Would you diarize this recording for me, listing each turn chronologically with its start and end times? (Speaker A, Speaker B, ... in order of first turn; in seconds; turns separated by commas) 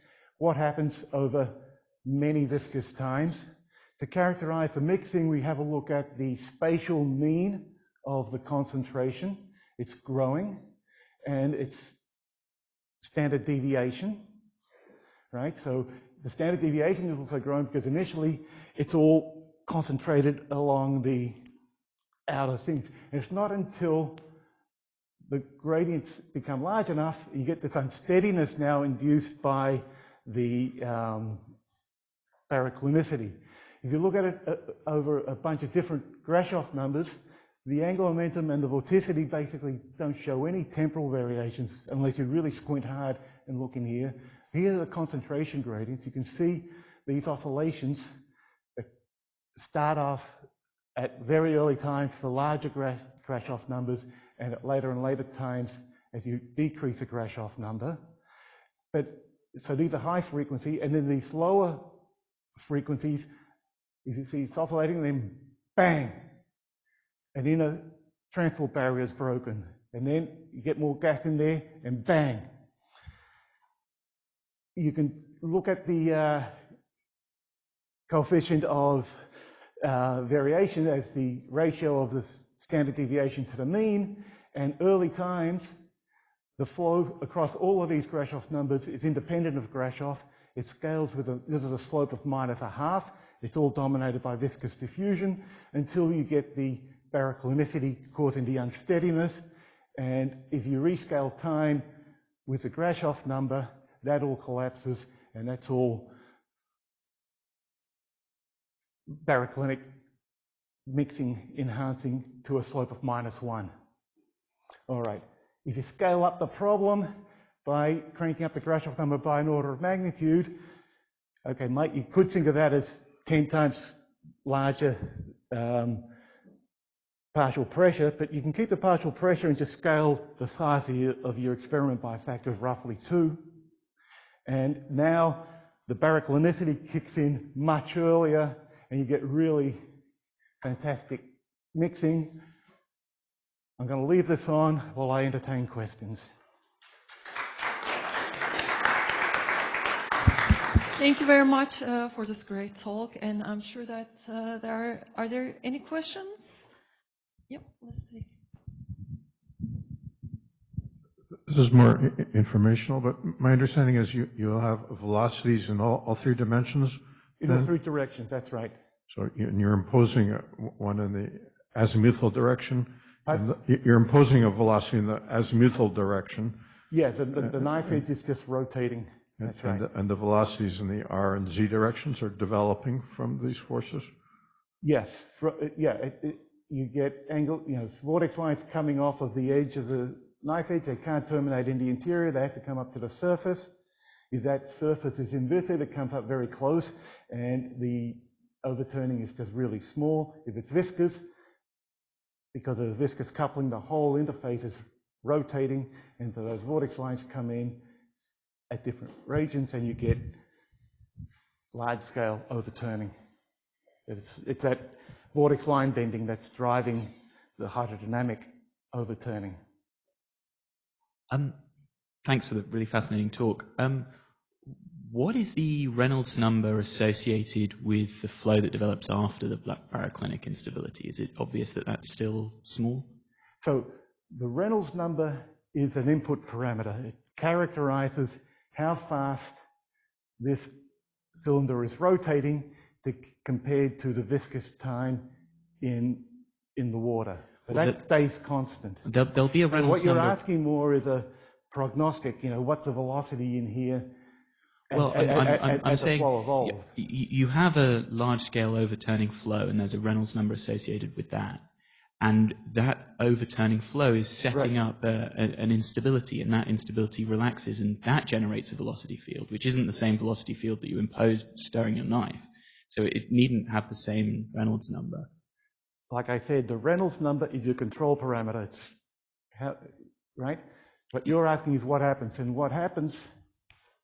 Speaker A: 0.4-10.6, Speaker A: 11.2-12.0, Speaker A: 13.0-14.2, Speaker A: 15.3-21.4, Speaker A: 22.3-24.2, Speaker A: 25.3-31.5, Speaker A: 32.5-48.1, Speaker A: 49.5-58.0, Speaker A: 58.9-62.0, Speaker A: 62.5-63.3, Speaker A: 64.0-66.2, Speaker A: 67.3-72.5, Speaker A: 74.8-76.5, Speaker A: 78.1-85.8, Speaker A: 86.6-99.4, Speaker A: 100.0-101.8, Speaker A: 102.5-106.1, Speaker A: 109.1-109.9, Speaker A: 110.8-113.7, Speaker A: 114.9-117.1, Speaker A: 117.6-120.5, Speaker A: 121.4-126.1, Speaker A: 127.3-133.5, Speaker A: 134.4-139.8, Speaker A: 140.6-142.4, Speaker A: 143.8-146.3, Speaker B: 150.9-156.7, Speaker B: 157.5-158.3, Speaker C: 161.5-167.7, Speaker A: 167.4-168.7, Speaker C: 169.1-176.6, Speaker A: 176.9-179.8, Speaker C: 179.4-184.1, Speaker A: 184.8-193.7, Speaker A: 194.3-201.2, Speaker A: 202.5-207.8, Speaker A: 208.7-210.4, Speaker A: 211.7-213.1, Speaker A: 214.1-219.6, Speaker D: 221.3-221.5, Speaker D: 222.2-224.1, Speaker D: 224.9-233.1, Speaker A: 233.6-239.6, Speaker A: 240.4-240.7, Speaker A: 241.4-245.3, Speaker A: 245.8-249.0, Speaker D: 247.7-247.9, Speaker D: 249.0-250.4, Speaker A: 249.7-254.1, Speaker A: 254.9-256.9, Speaker D: 254.9-261.6, Speaker D: 262.2-275.3, Speaker A: 276.1-278.9, Speaker A: 279.5-283.3